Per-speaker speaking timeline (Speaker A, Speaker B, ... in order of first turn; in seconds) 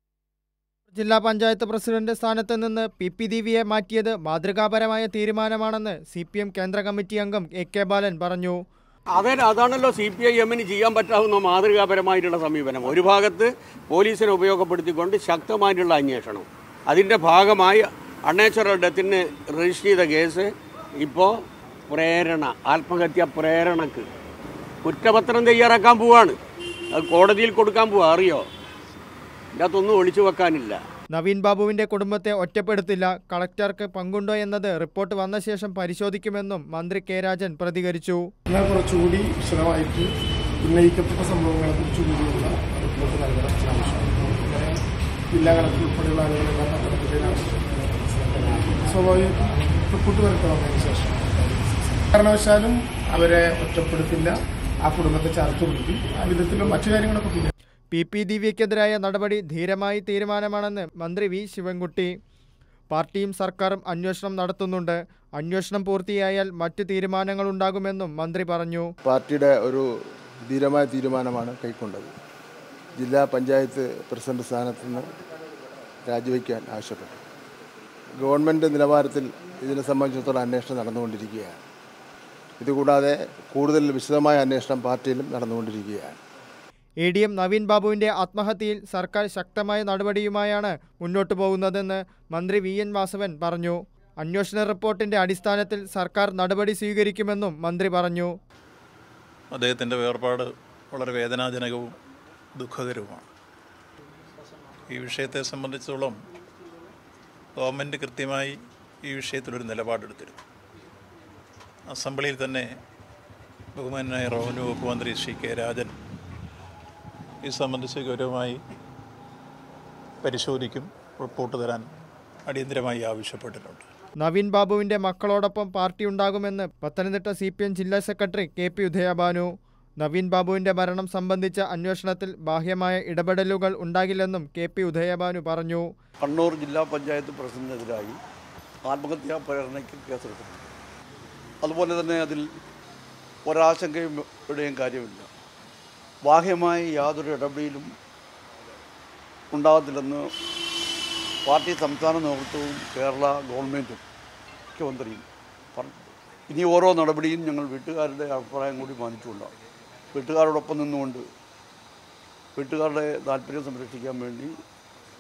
Speaker A: 0.9-8.6, 31.1-38.3, 57.9-62.1, 62.9-68.9, 87.0-98.3, 124.2-129.5, 130.0-135.9
Speaker B: 9.2-20.5, 21.0-21.3, 21.9-24.1, 24.9-26.4, 26.9-28.5, 29.6-30.8
Speaker C: 38.5-40.1, 40.6-54.4, 54.9-57.5
Speaker D: 69.0-69.8, 70.5-72.1, 73.0-75.1, 76.1-77.2, 78.2-81.6, 82.6-86.2
Speaker E: 99.5-101.9, 102.6-103.3, 104.9-106.2, 107.6-110.4, 111.9-112.6, 113.8-115.9, 117.4-118.6, 120.2-121.8, 122.5-123.8
Speaker F: 136.2-138.2, 138.8-140.7, 141.6-142.4, 143.5-145.3, 146.2-147.9, 149.5-150.3, 151.4-154.0, 154.7-159.5, 160.1-161.2, 162.6-164.6